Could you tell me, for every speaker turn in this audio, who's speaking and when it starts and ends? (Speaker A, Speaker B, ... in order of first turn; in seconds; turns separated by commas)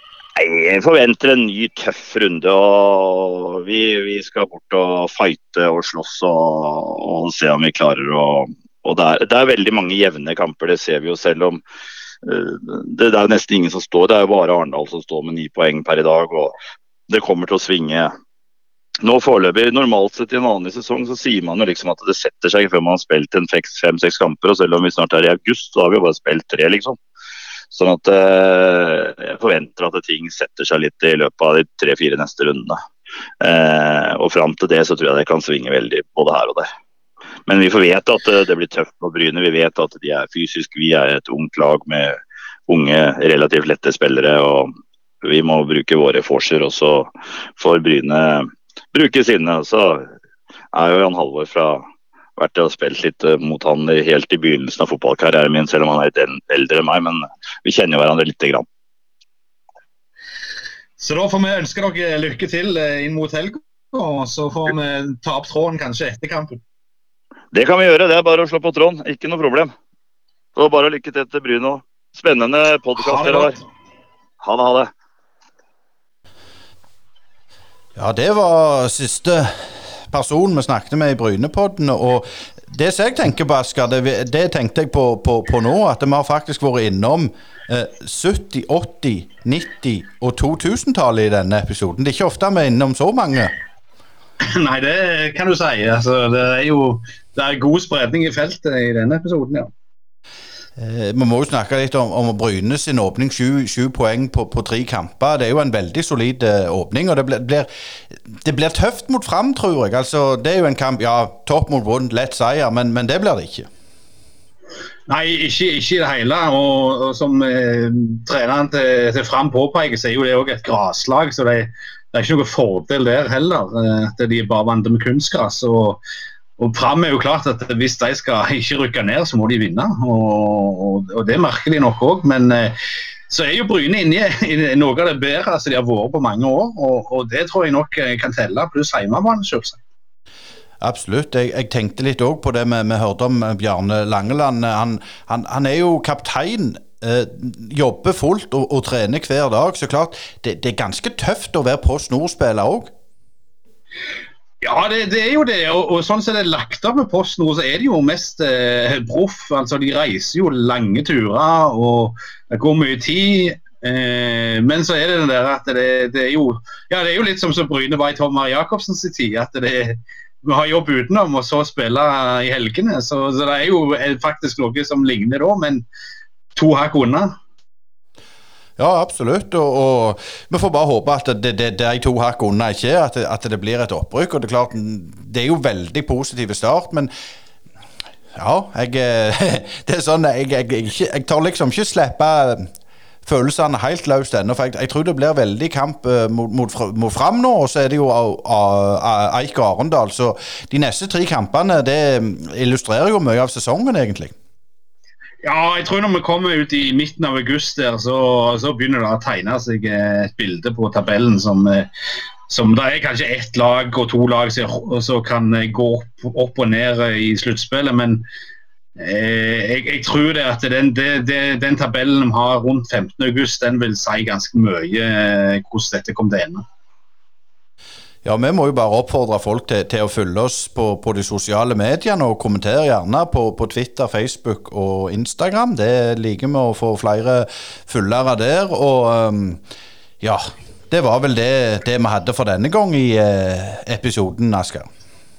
Speaker A: 0.3-11.6, Speaker A: 12.2-16.6, Speaker A: 17.1-18.1, Speaker A: 19.0-27.0, Speaker A: 27.7-32.8, Speaker A: 33.4-36.7, Speaker A: 37.5-42.2, Speaker A: 42.7-44.7, Speaker A: 45.2-50.1, Speaker A: 50.7-51.8, Speaker A: 52.4-58.6, Speaker B: 61.0-66.6, Speaker A: 67.5-69.7, Speaker A: 70.5-73.6, Speaker B: 73.0-73.6, Speaker A: 74.4-74.9, Speaker C: 78.0-93.5, Speaker B: 94.4-99.7, Speaker C: 100.8-107.7, Speaker C: 108.3-113.7, Speaker B: 115.1-126.0, Speaker B: 126.6-132.8, Speaker B: 133.3-139.8, Speaker C: 140.8-152.9, Speaker B: 154.6-175.8, Speaker B: 176.5-177.3, Speaker C: 178.8-187.1, Speaker C: 188.3-192.7, Speaker C: 193.2-204.3, Speaker B: 205.4-211.9, Speaker B: 212.5-218.2, Speaker B: 219.0-226.6, Speaker C: 228.2-239.6, Speaker C: 240.2-244.9